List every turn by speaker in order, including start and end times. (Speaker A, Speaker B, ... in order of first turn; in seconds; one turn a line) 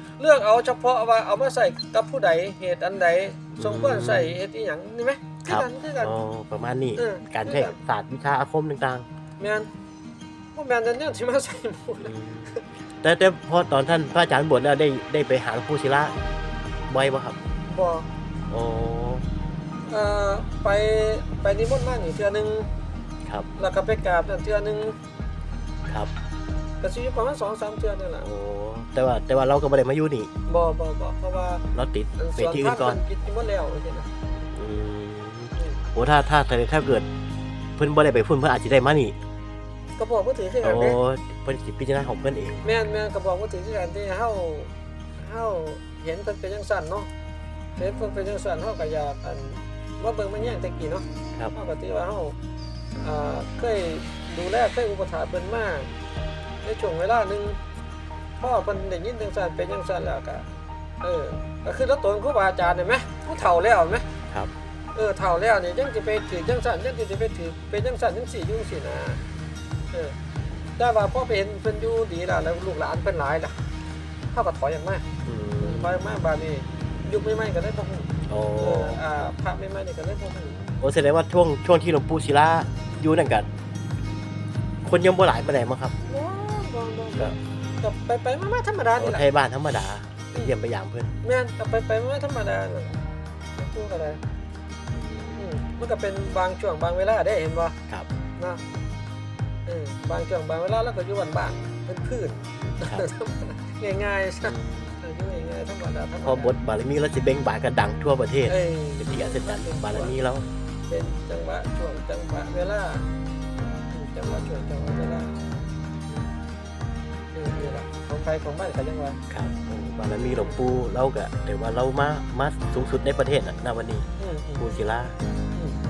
Speaker A: 0.2-6.2
Speaker B: 3.5-4.4
Speaker B: 5.5-9.1
Speaker A: 7.0-7.8
Speaker A: 9.4-9.7
Speaker A: 10.5-12.6
Speaker B: 12.0-16.2
Speaker B: 16.9-17.4
Speaker A: 17.7-18.1
Speaker B: 18.5-19.2
Speaker A: 19.9-22.7
Speaker A: 23.6-25.0
Speaker A: 26.8-28.3
Speaker B: 28.2-30.3
Speaker A: 30.5-31.6
Speaker B: 31.7-33.0
Speaker A: 32.2-34.1
Speaker B: 34.5-37.1
Speaker A: 35.5-35.8
Speaker B: 37.8-39.1
Speaker A: 40.0-41.0
Speaker B: 40.6-42.6
Speaker A: 42.6-47.1
Speaker A: 47.8-52.3
Speaker A: 53.0-55.9
Speaker A: 56.6-57.6
Speaker A: 58.4-60.5
Speaker A: 61.0-64.1
Speaker A: 64.9-69.2
Speaker A: 70.8-73.5
Speaker A: 74.3-75.0
Speaker B: 75.2-75.9
Speaker A: 75.6-80.7
Speaker B: 78.3-79.0
Speaker B: 80.8-83.5
Speaker B: 84.8-85.9
Speaker A: 86.0-89.2
Speaker B: 89.0-91.1
Speaker A: 91.2-93.0
Speaker A: 93.5-94.2
Speaker B: 94.9-95.5
Speaker A: 95.4-97.8
Speaker A: 99.7-106.5
Speaker B: 102.6-103.0
Speaker B: 104.4-105.0
Speaker B: 106.2-110.5
Speaker A: 108.5-110.2
Speaker A: 110.9-113.1
Speaker A: 113.9-115.5
Speaker A: 116.1-116.3
Speaker A: 117.3-119.2
Speaker B: 119.3-124.0
Speaker A: 124.2-124.8
Speaker B: 124.6-125.1